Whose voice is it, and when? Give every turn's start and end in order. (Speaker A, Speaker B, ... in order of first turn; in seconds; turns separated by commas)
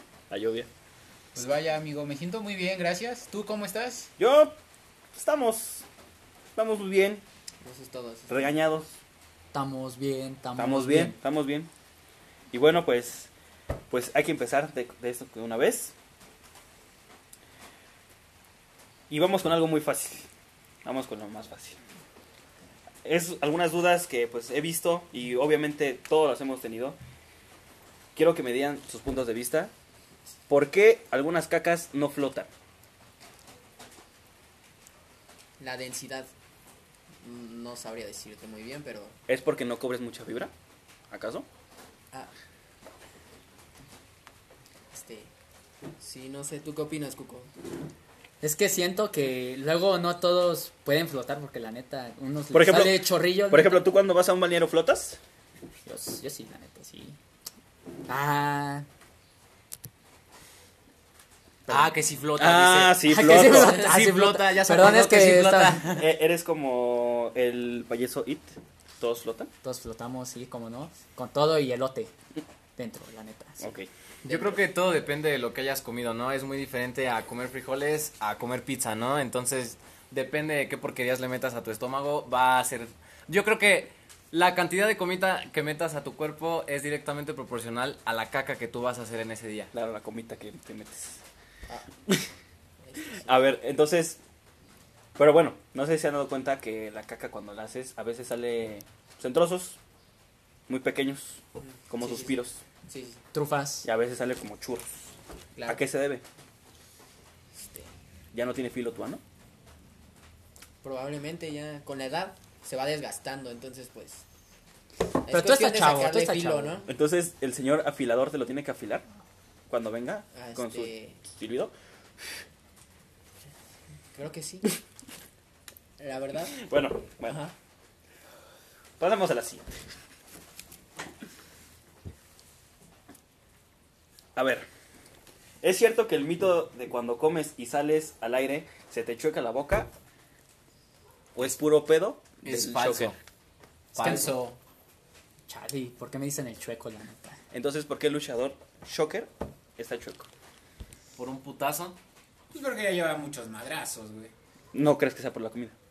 Speaker A: 0.3-0.7, Speaker B: 1.4-4.1, Speaker A: 4.2-4.6, Speaker A: 5.1-5.8, Speaker A: 6.6-7.2, Speaker C: 7.6-8.5, Speaker A: 8.3-9.0, Speaker D: 9.5-11.2, Speaker A: 10.6-11.7, Speaker A: 12.5-13.3, Speaker A: 13.9-15.9, Speaker A: 19.1-20.3, Speaker A: 20.9-21.8, Speaker A: 23.1-27.0, Speaker A: 28.1-29.7, Speaker A: 30.5-32.5, Speaker C: 35.6-36.3, Speaker C: 37.2-39.2, Speaker A: 39.3-40.5, Speaker A: 41.1-41.5, Speaker C: 44.9-45.3, Speaker C: 46.0-47.5, Speaker D: 48.4-53.9, Speaker A: 52.5-55.2, Speaker D: 55.9-57.2, Speaker D: 58.1-58.9, Speaker E: 61.7-66.1, Speaker A: 62.4-63.8, Speaker D: 63.0-65.8, Speaker A: 65.8-69.5, Speaker D: 69.6-72.1, Speaker D: 72.8-73.7, Speaker A: 73.6-73.9, Speaker E: 74.2-89.7, Speaker A: 89.7-91.2, Speaker C: 92.8-93.3, Speaker A: 93.2-94.2, Speaker A: 95.2-99.8, Speaker A: 100.7-102.6, Speaker C: 101.6-103.2, Speaker D: 103.3-103.9, Speaker A: 103.8-105.1, Speaker C: 105.6-105.8, Speaker A: 105.7-106.2, Speaker C: 107.5-107.9, Speaker A: 108.3-109.2, Speaker C: 110.8-114.2, Speaker C: 115.2-116.9, Speaker D: 115.3-116.8, Speaker A: 116.9-119.0, Speaker A: 119.7-121.7, Speaker C: 120.3-121.2, Speaker C: 124.2-124.7, Speaker C: 126.0-126.6, Speaker A: 126.5-127.5, Speaker A: 129.0-129.7, Speaker A: 134.4-134.7, Speaker A: 135.6-139.9, Speaker A: 141.3-143.2, Speaker E: 142.4-143.2, Speaker E: 143.9-144.3, Speaker D: 143.9-144.6, Speaker D: 145.5-147.4, Speaker A: 147.5-150.3, Speaker E: 151.2-152.0, Speaker B: 152.5-154.3, Speaker A: 154.7-155.8